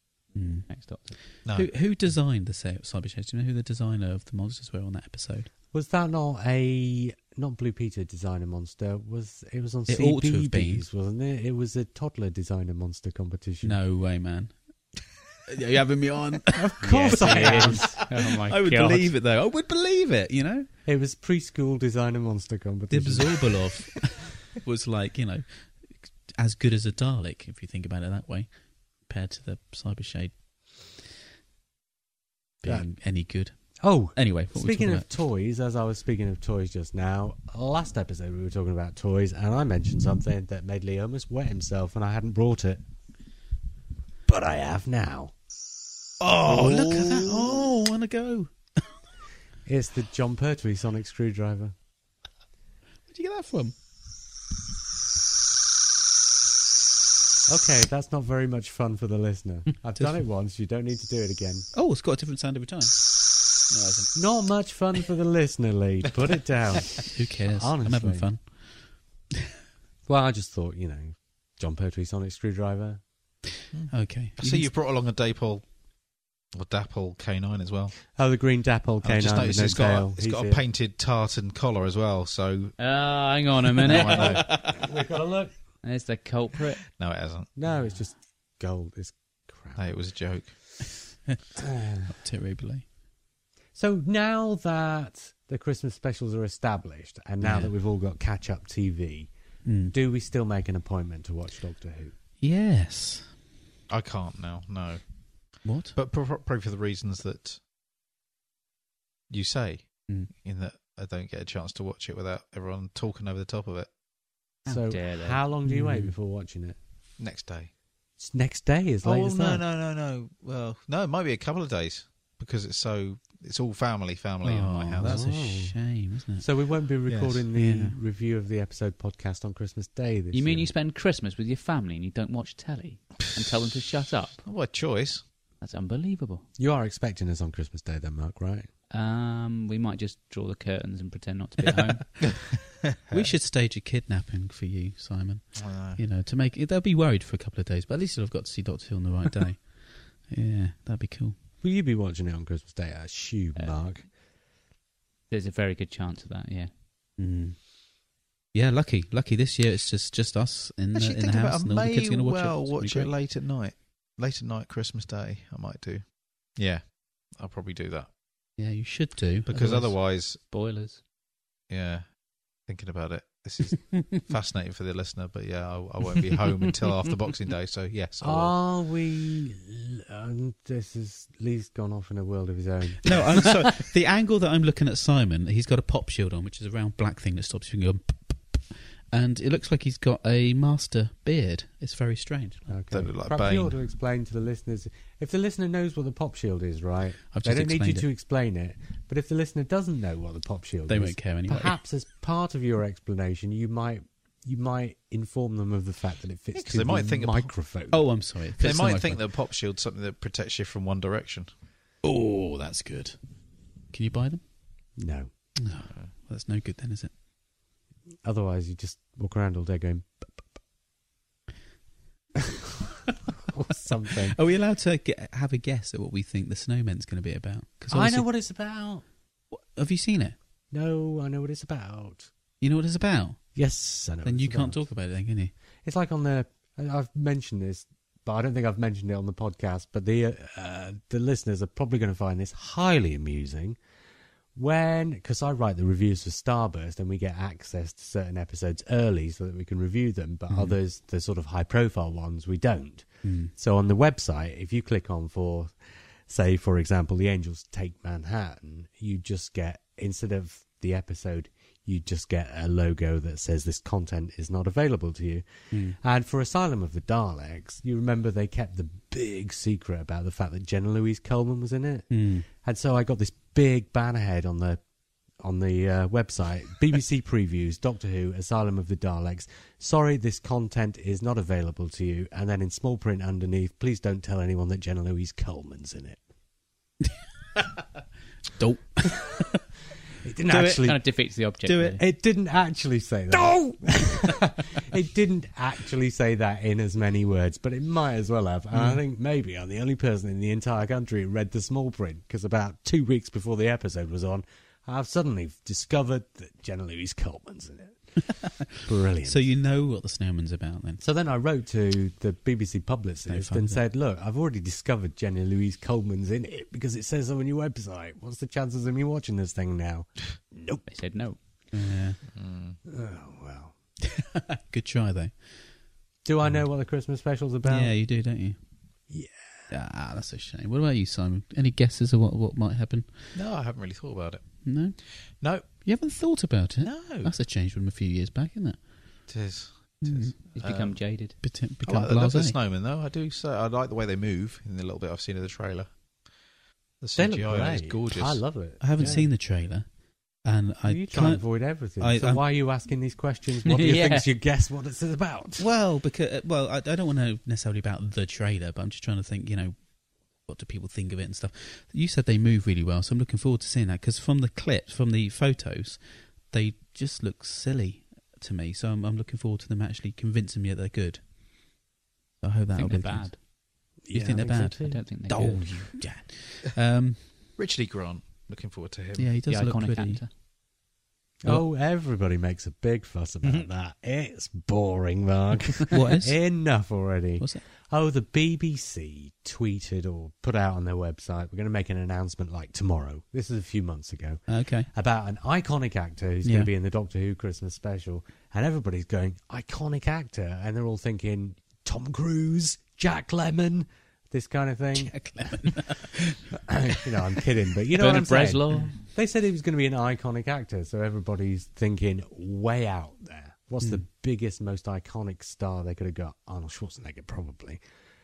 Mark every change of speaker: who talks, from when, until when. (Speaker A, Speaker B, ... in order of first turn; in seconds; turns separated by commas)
Speaker A: 0.3-0.7, Speaker B: 0.7-1.1, Speaker C: 1.4-1.7, Speaker A: 1.5-5.5, Speaker D: 5.7-13.8, Speaker A: 9.9-10.8, Speaker A: 13.6-14.5, Speaker A: 15.5-20.7, Speaker D: 16.6-18.0, Speaker B: 16.8-19.1, Speaker D: 20.9-23.7, Speaker A: 22.9-28.5, Speaker A: 29.0-30.3, Speaker A: 32.6-35.1, Speaker D: 33.8-42.8, Speaker D: 44.3-45.3, Speaker A: 46.2-48.9, Speaker D: 46.4-47.7, Speaker D: 49.6-51.7, Speaker A: 53.1-53.7, Speaker D: 57.5-61.7, Speaker A: 59.9-60.2, Speaker A: 61.7-63.1, Speaker A: 63.7-64.1, Speaker D: 64.1-68.3, Speaker A: 67.1-68.5, Speaker D: 70.1-73.0, Speaker C: 73.7-75.6, Speaker A: 73.9-74.7, Speaker C: 76.5-78.0, Speaker D: 78.1-80.6, Speaker C: 79.0-82.7, Speaker B: 82.8-84.6, Speaker A: 83.8-84.8, Speaker C: 83.8-84.3, Speaker D: 83.9-85.5, Speaker B: 85.8-86.8, Speaker C: 86.9-87.5, Speaker D: 87.5-89.8, Speaker C: 89.8-90.6, Speaker D: 91.6-92.1, Speaker A: 92.1-92.8, Speaker D: 93.7-99.3, Speaker A: 97.4-97.7, Speaker A: 99.6-99.9, Speaker D: 99.9-102.1, Speaker A: 102.4-103.3, Speaker C: 103.9-105.0, Speaker C: 105.5-107.6, Speaker A: 105.6-105.9, Speaker C: 109.3-113.9, Speaker B: 114.7-115.4, Speaker D: 114.7-116.8, Speaker A: 115.6-116.1, Speaker C: 117.2-117.7, Speaker D: 118.2-119.6, Speaker C: 119.0-125.2, Speaker A: 124.4-126.5, Speaker D: 125.0-125.8, Speaker D: 126.4-130.7, Speaker C: 127.1-127.4, Speaker A: 127.5-128.0, Speaker B: 130.3-134.4, Speaker C: 134.4-135.3, Speaker B: 135.6-136.4, Speaker D: 136.6-138.7, Speaker B: 138.9-142.2, Speaker C: 142.9-143.3, Speaker A: 143.1-151.4, Speaker C: 145.5-146.0, Speaker D: 151.6-154.1, Speaker B: 153.6-153.8, Speaker B: 155.3-156.7, Speaker A: 157.2-157.6, Speaker A: 158.5-163.1, Speaker C: 160.9-168.1, Speaker A: 168.6-169.9, Speaker C: 169.4-170.4, Speaker B: 170.4-171.0, Speaker C: 171.7-178.5, Speaker D: 178.2-183.2, Speaker A: 183.0-192.7, Speaker D: 192.7-208.0, Speaker C: 192.9-193.7, Speaker A: 197.3-198.1, Speaker A: 200.9-201.8, Speaker C: 206.5-207.5, Speaker A: 207.9-209.2, Speaker C: 208.6-211.5, Speaker A: 212.0-213.2, Speaker A: 213.9-214.4, Speaker D: 215.0-215.3, Speaker A: 215.6-217.1, Speaker D: 218.2-220.4, Speaker D: 222.4-222.6, Speaker D: 223.4-224.4, Speaker A: 224.2-228.3, Speaker D: 227.9-229.0, Speaker A: 229.5-230.3, Speaker D: 230.7-232.3, Speaker A: 232.6-233.4, Speaker D: 233.5-234.8, Speaker A: 234.2-235.5, Speaker D: 235.8-243.8, Speaker D: 244.6-255.8, Speaker A: 250.5-250.8, Speaker A: 253.2-253.5, Speaker D: 256.3-274.8, Speaker A: 265.7-266.0, Speaker A: 272.1-272.5, Speaker D: 275.4-286.2, Speaker A: 288.5-289.6, Speaker D: 290.2-291.0, Speaker A: 290.5-290.9, Speaker B: 290.8-292.0, Speaker A: 291.6-292.0, Speaker D: 292.0-308.0, Speaker A: 298.7-299.0, Speaker D: 308.8-309.4, Speaker A: 309.2-311.0, Speaker D: 311.0-320.8, Speaker A: 313.3-313.8, Speaker B: 320.9-321.4, Speaker A: 321.7-322.2, Speaker C: 322.3-322.8, Speaker D: 322.9-323.7, Speaker A: 324.1-325.4, Speaker D: 326.2-327.9, Speaker A: 327.6-328.6, Speaker D: 329.1-329.7, Speaker A: 329.7-333.3, Speaker C: 333.3-334.4, Speaker A: 334.6-335.0, Speaker C: 335.4-335.6, Speaker A: 335.8-338.8, Speaker C: 336.8-337.3, Speaker C: 339.3-341.0, Speaker A: 340.0-340.3, Speaker B: 340.6-341.4, Speaker A: 341.4-342.6, Speaker C: 341.8-345.9, Speaker C: 347.0-348.4, Speaker D: 347.1-349.3, Speaker A: 348.8-349.9, Speaker A: 350.4-352.4, Speaker D: 350.9-355.6, Speaker B: 353.7-354.2, Speaker A: 355.6-359.8, Speaker A: 360.4-371.2, Speaker A: 372.4-373.4, Speaker B: 372.7-373.4, Speaker D: 374.0-375.9, Speaker A: 374.1-377.3, Speaker B: 374.8-375.6, Speaker C: 377.6-379.3, Speaker A: 379.2-380.2, Speaker B: 379.5-380.3, Speaker D: 381.4-405.7, Speaker A: 385.9-386.4, Speaker A: 394.5-394.9, Speaker A: 396.4-396.7, Speaker A: 404.9-406.4, Speaker D: 406.6-417.8, Speaker B: 407.9-409.0